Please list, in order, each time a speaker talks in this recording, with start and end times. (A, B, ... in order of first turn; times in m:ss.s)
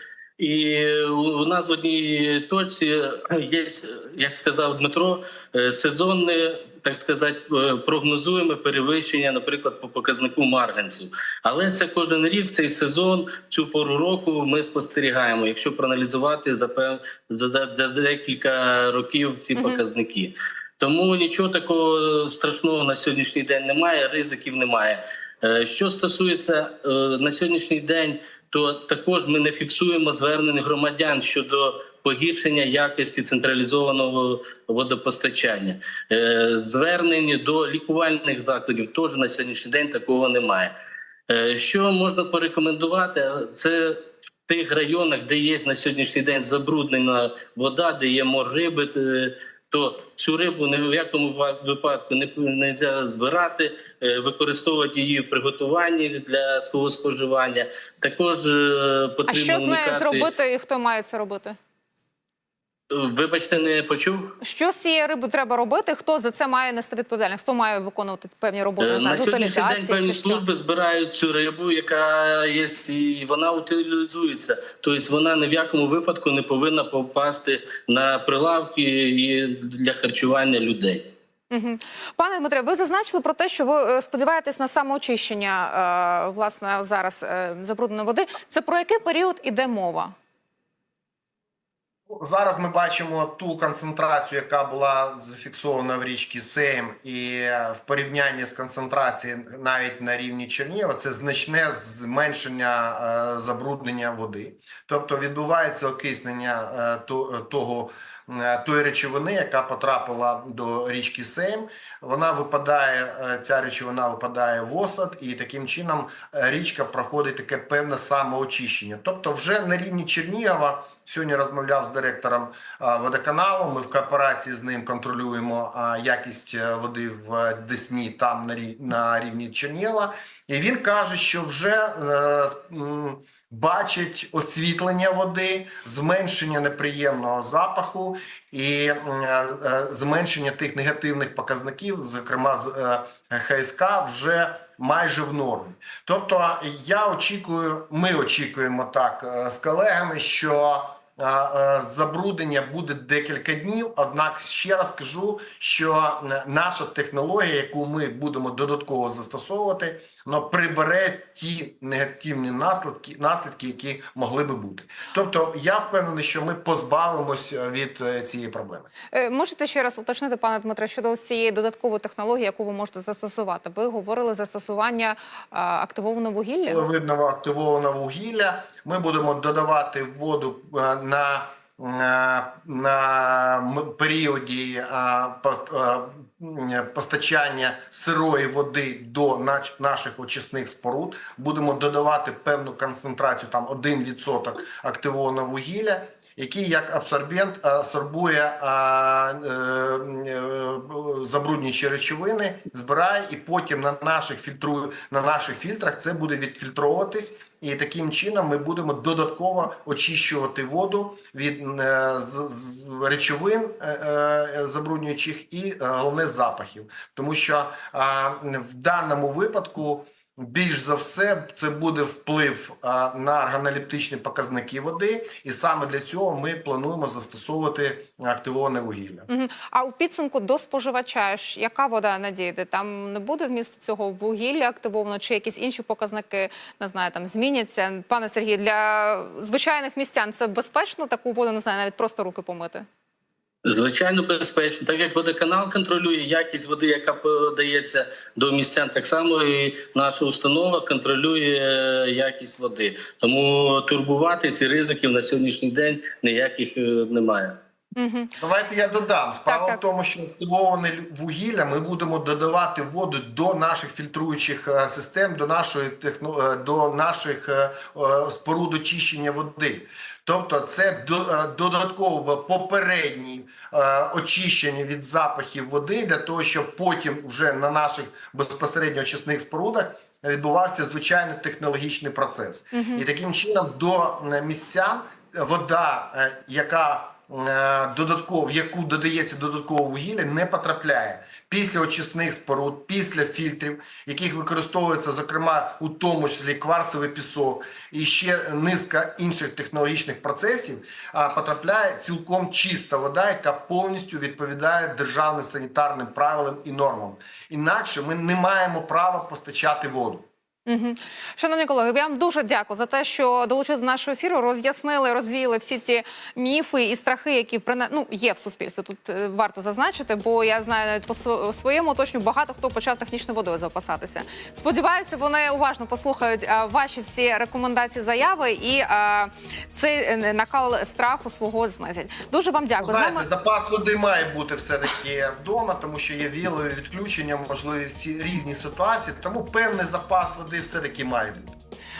0:00.4-0:40.7 A
0:41.3-1:00.3 A
0:59.3-1:01.6 B
1:02.9-1:04.3 A
1:04.4-1:10.4 B
1:08.8-1:21.0 A
1:21.5-1:30.1 B
1:32.2-2:48.9 C
2:49.1-2:56.8 B
2:56.7-3:49.3 C
3:49.3-4:02.8 B
4:03.6-4:17.5 A
4:18.0-4:18.3 B
4:18.4-5:10.2 C
4:19.5-4:19.8 B
4:42.7-4:43.0 B
5:10.6-5:33.2 B
5:32.8-5:41.6 C